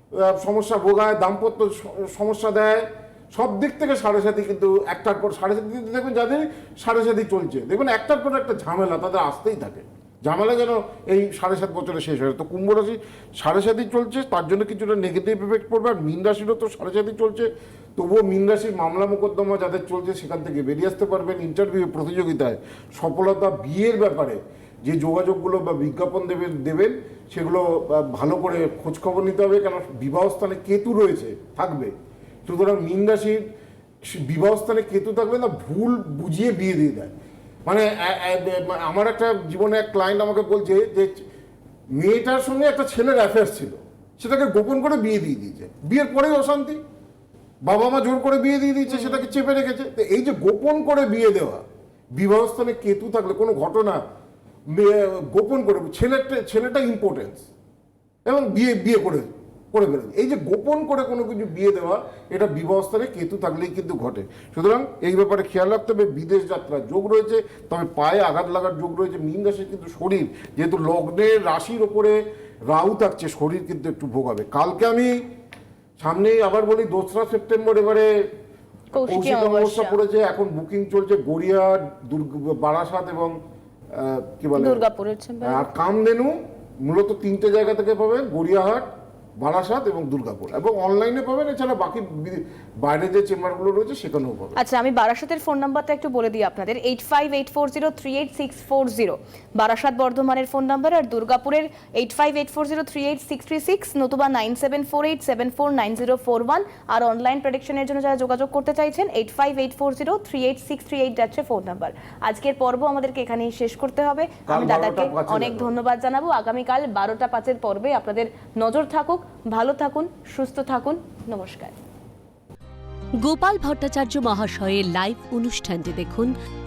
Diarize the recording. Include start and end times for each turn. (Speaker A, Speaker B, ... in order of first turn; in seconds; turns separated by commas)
Speaker A: 0.1-31.9, Speaker A: 32.5-33.4, Speaker A: 34.1-37.1, Speaker A: 37.7-41.2, Speaker A: 42.0-46.8, Speaker A: 47.6-51.6, Speaker B: 48.9-49.3, Speaker A: 52.2-54.0, Speaker A: 54.7-57.5, Speaker A: 58.3-75.2, Speaker A: 76.0-78.1, Speaker B: 78.9-80.0, Speaker A: 79.1-83.4, Speaker A: 83.9-84.8, Speaker B: 84.6-85.7, Speaker A: 85.4-88.9, Speaker A: 89.4-94.6, Speaker B: 94.6-121.8, Speaker A: 114.5-115.7, Speaker C: 123.2-126.3